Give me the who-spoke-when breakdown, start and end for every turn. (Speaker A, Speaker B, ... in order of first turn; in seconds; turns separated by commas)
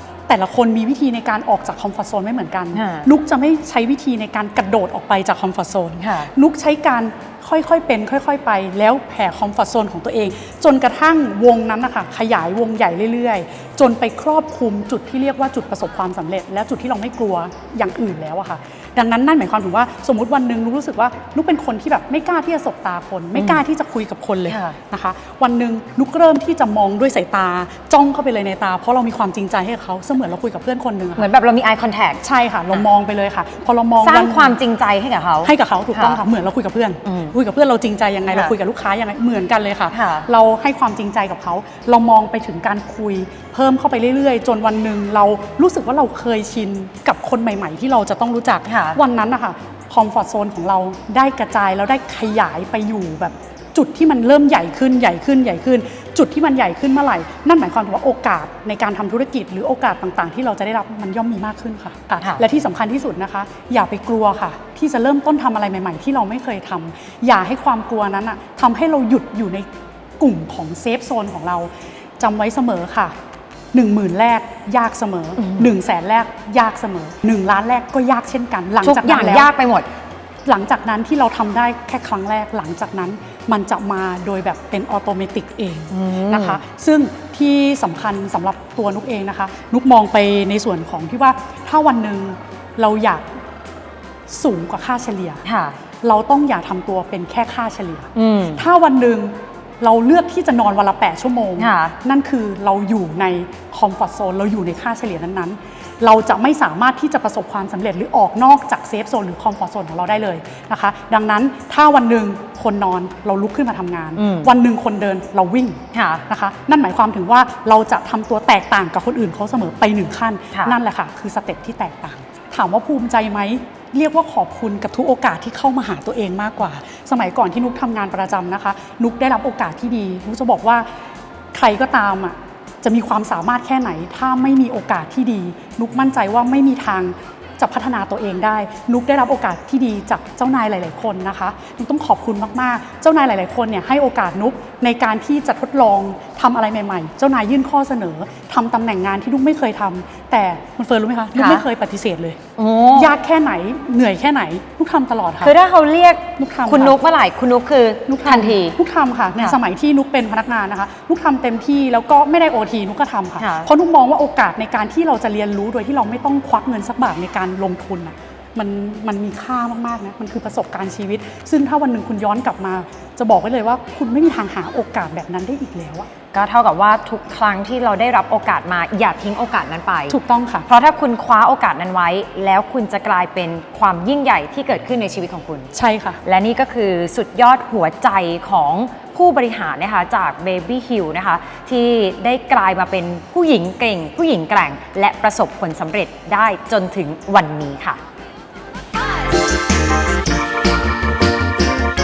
Speaker A: 0.3-31.3, Speaker B: 2.7-3.1, Speaker B: 6.0-6.3, Speaker B: 23.3-23.6, Speaker B: 24.5-24.8, Speaker B: 31.1-32.8, Speaker A: 32.2-34.6, Speaker B: 34.0-36.2, Speaker A: 35.4-69.7, Speaker B: 37.0-37.3, Speaker B: 39.9-40.3, Speaker B: 48.6-49.0, Speaker A: 70.2-73.1, Speaker A: 73.7-79.5, Speaker B: 75.4-75.7, Speaker B: 78.8-79.9, Speaker A: 80.5-93.3, Speaker B: 85.9-86.6, Speaker A: 94.3-95.4, Speaker B: 95.4-95.8, Speaker A: 96.0-130.9, Speaker B: 98.1-98.6, Speaker B: 101.6-101.9, Speaker B: 114.2-114.5, Speaker B: 115.9-116.2, Speaker A: 131.5-152.4, Speaker B: 151.3-151.6, Speaker B: 152.6-153.1, Speaker A: 152.9-155.5, Speaker B: 155.4-158.8, Speaker A: 156.4-157.0, Speaker A: 158.1-176.1, Speaker B: 163.4-163.7, Speaker B: 176.3-180.2, Speaker A: 180.1-180.7, Speaker B: 180.7-185.7, Speaker A: 185.7-186.2, Speaker B: 186.2-198.0